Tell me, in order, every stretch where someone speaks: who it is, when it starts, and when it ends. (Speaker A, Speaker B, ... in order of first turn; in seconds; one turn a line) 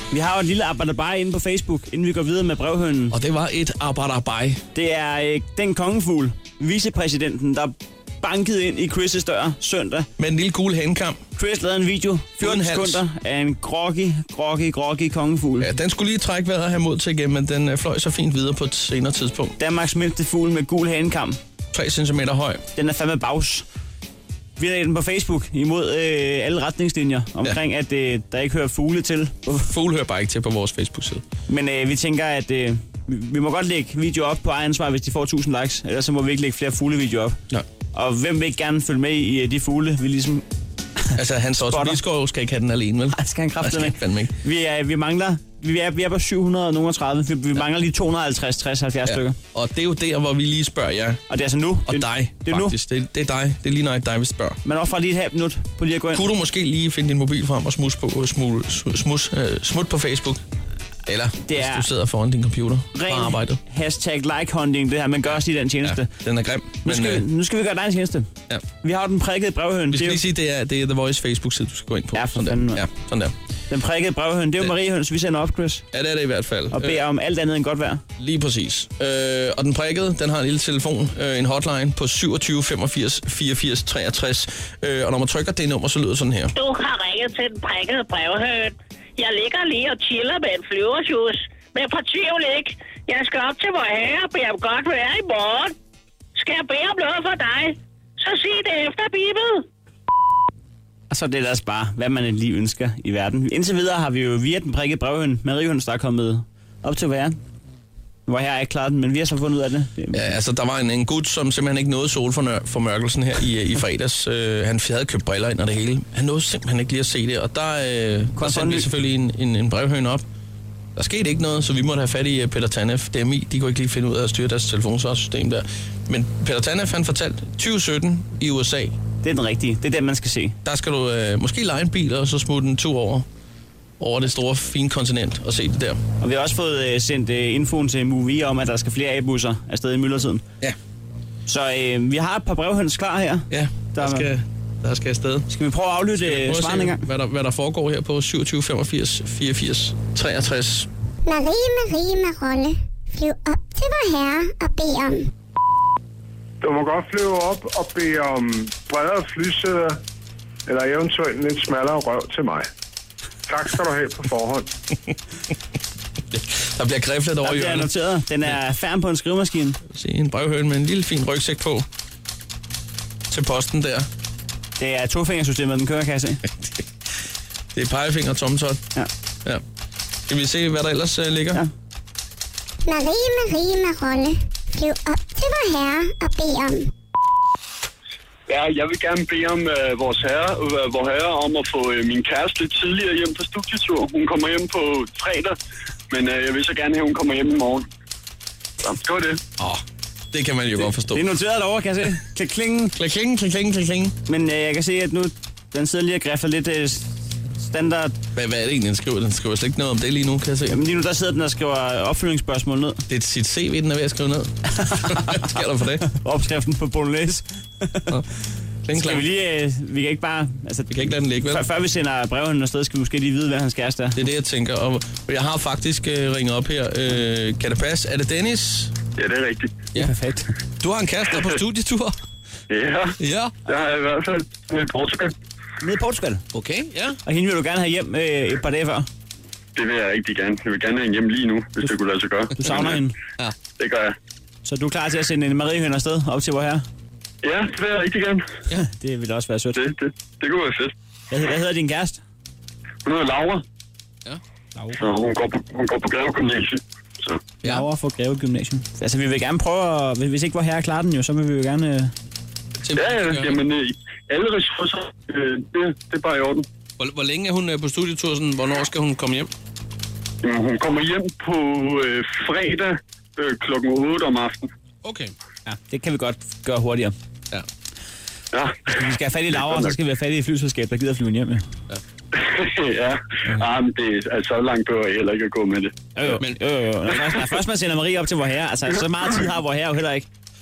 Speaker A: 0.1-3.1
Speaker B: 3.1-4.6
Speaker A: 4.7-10.1
Speaker B: 10.2-11.2
Speaker A: 11.4-15.7
Speaker B: 12.4-13.0
Speaker B: 15.6-19.6
Speaker A: 19.6-21.4
Speaker B: 21.7-22.6
Speaker A: 22.8-23.7
Speaker A: 24.6-29.7
Speaker B: 29.6-31.2
Speaker A: 31.5-37.4
Speaker A: 37.9-40.4
Speaker A: 41.0-42.0
Speaker B: 41.1-44.3
Speaker A: 43.1-49.4
Speaker B: 49.1-51.2
Speaker A: 51.3-52.7
Speaker B: 51.9-54.6
Speaker A: 54.6-56.2
Speaker B: 56.1-60.4
Speaker B: 61.1-63.6
Speaker A: 61.5-61.9
Speaker A: 62.9-66.1
Speaker B: 65.8-67.2
Speaker A: 66.8-68.3
Speaker A: 68.8-70.2
Speaker B: 69.9-73.3
Speaker A: 72.1-72.8
Speaker A: 73.7-75.8
Speaker B: 75.9-77.0
Speaker A: 76.7-78.0
Speaker B: 78.2-86.5
Speaker C: 86.6-95.8
Speaker C: 96.3-99.7
Speaker A: 101.1-107.4
Speaker A: 108.3-110.3
Speaker B: 110.1-120.2
Speaker A: 118.4-118.9
Speaker B: 121.0-128.9
Speaker A: 129.2-130.6
Speaker B: 130.7-133.3
Speaker B: 134.0-136.0
Speaker A: 136.2-140.4
Speaker A: 141.5-144.3
Speaker B: 143.5-145.5
Speaker A: 145.5-147.0
Speaker B: 146.2-150.9
Speaker D: 151.3-155.3
Speaker E: 156.6-160.0
Speaker E: 160.7-162.7
Speaker E: 163.5-164.7
Speaker B: 166.3-167.9
Speaker A: 167.4-169.8
Speaker B: 169.9-171.9
Speaker B: 173.3-174.1
Speaker A: 174.8-176.4
Speaker B: 177.8-178.8
Speaker B: 180.3-181.6
Speaker D: 182.9-186.9
Speaker F: 188.5-195.6
Speaker F: 196.1-197.9
Speaker F: 198.8-199.4
Speaker B: 199.6-201.2
Speaker A: 200.8-202.9
Speaker B: 203.0-204.2
Speaker A: 204.3-207.1
Speaker A: 207.6-208.2
Speaker B: 208.4-210.8
Speaker A: 210.7-213.0
Speaker B: 213.1-216.1
Speaker A: 214.8-215.4
Speaker A: 216.1-218.2
Speaker B: 218.8-219.2
Speaker A: 218.9-224.2
Speaker B: 220.9-221.7
Speaker B: 224.2-228.9
Speaker F: 229.2-229.8
Speaker A: 230.0-230.6
Speaker B: 230.8-232.2
Speaker F: 232.7-235.3
Speaker B: 233.2-233.6
Speaker A: 235.8-236.4
Speaker B: 236.5-237.2
Speaker A: 237.3-239.1
Speaker F: 239.8-242.5
Speaker A: 242.6-243.2
Speaker B: 242.7-243.6
Speaker F: 243.8-244.2
Speaker A: 244.7-246.8
Speaker F: 247.4-248.4
Speaker A: 248.8-249.8
Speaker F: 249.8-250.9
Speaker A: 251.3-252.2
Speaker F: 253.1-253.6
Speaker A: 254.8-255.0
Speaker F: 255.0-257.4
Speaker A: 257.6-262.1
Speaker B: 262.8-263.6
Speaker F: 263.0-266.7
Speaker B: 267.0-269.5
Speaker F: 270.4-274.7
Speaker B: 275.0-275.3
Speaker A: 275.7-277.1
Speaker F: 278.5-278.9
Speaker A: 278.9-281.6
Speaker F: 279.5-279.9
Speaker F: 282.3-286.0
Speaker A: 286.1-290.3
Speaker B: 286.3-286.6